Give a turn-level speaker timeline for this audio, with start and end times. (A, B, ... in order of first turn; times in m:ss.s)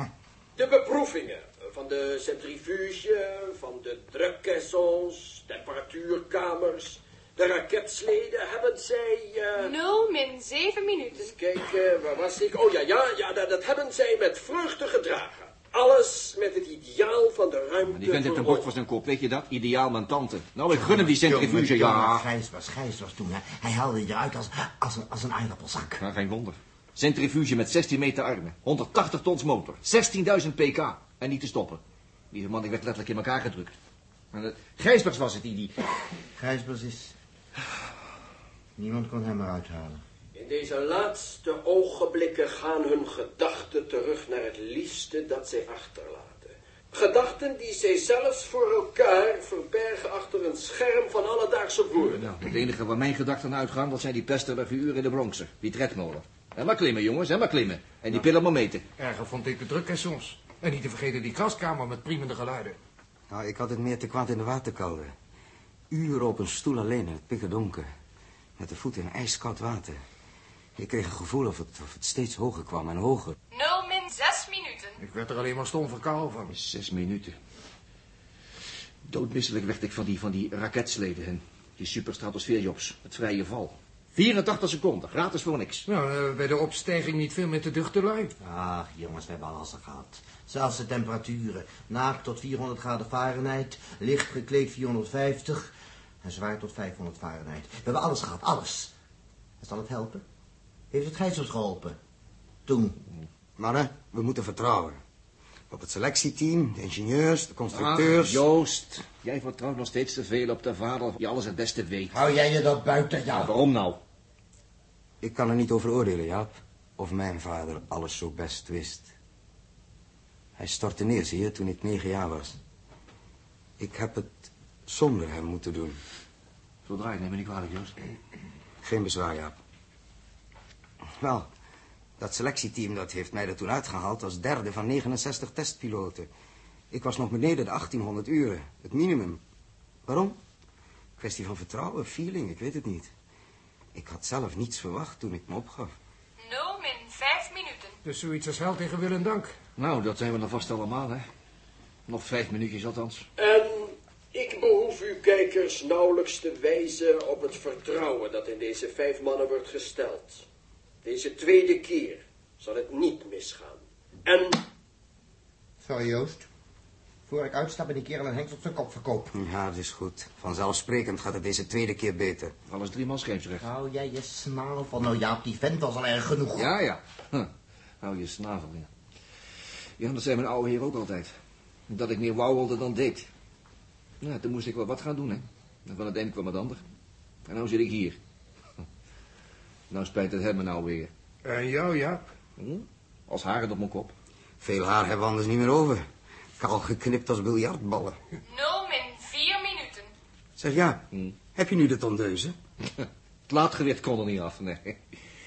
0:00.6-0:09.8 A
0:09.6-0:11.4 B
0:11.1-0:18.7 A
0:17.8-0:22.3 C
0:20.7-0:26.0 D
0:26.0-0:33.8 C
0:34.3-0:35.8 C
0:36.4-0:37.1 D
0:38.8-0:40.0 D
0:40.4-0:52.3 A
0:52.1-0:58.8 C
0:59.0-1:02.8 E
1:03.3-1:05.1 F
1:05.9-1:07.9 F
1:08.6-1:10.0 F
1:10.8-1:13.4 F
1:13.5-1:15.0 B
1:15.0-1:16.5 E
1:16.5-1:17.4 C
1:19.0-1:25.9 C
1:25.9-1:28.3 E
1:28.4-1:35.7 D
1:36.2-1:38.9 D
1:39.6-1:40.2 D
1:40.9-1:42.0 D
1:42.7-1:43.0 D
1:43.6-1:45.0 F
1:45.7-1:48.4 F
1:47.7-1:52.2 C
1:52.1-1:53.5 D
1:53.3-1:54.0 C
1:55.2-1:59.1 F
2:00.6-2:02.6 F
2:03.8-2:06.0 F
2:06.9-2:08.0 C
2:08.8-2:09.6 F
2:11.2-2:11.5 F
2:12.2-2:16.3 F
2:16.9-2:19.4 F
2:20.1-2:20.4 F
2:21.2-2:23.1 F
2:24.0-2:25.9 F
2:26.4-2:28.0 B
2:28.0-2:29.5 E
2:29.8-2:31.2 C
2:32.1-2:33.3 C
2:33.4-2:40.4 A
2:41.0-2:44.6 A
2:45.8-2:46.5 D
2:47.3-2:49.3 D
2:49.3-2:52.5 F
2:52.7-2:53.7 C
2:53.6-2:56.7 D
2:56.6-2:58.9 C
3:00.0-3:01.3 C
3:01.9-3:03.3 C
3:04.2-3:06.8 C
3:07.5-3:08.2 C
3:09.9-3:11.1 C
3:11.4-3:12.2 E
3:12.6-3:14.1 C
3:14.6-3:16.0 F
3:16.6-3:18.2 F
3:18.4-3:20.1 B
3:20.6-3:21.0 F
3:21.6-3:22.6 F
3:23.0-3:25.0 C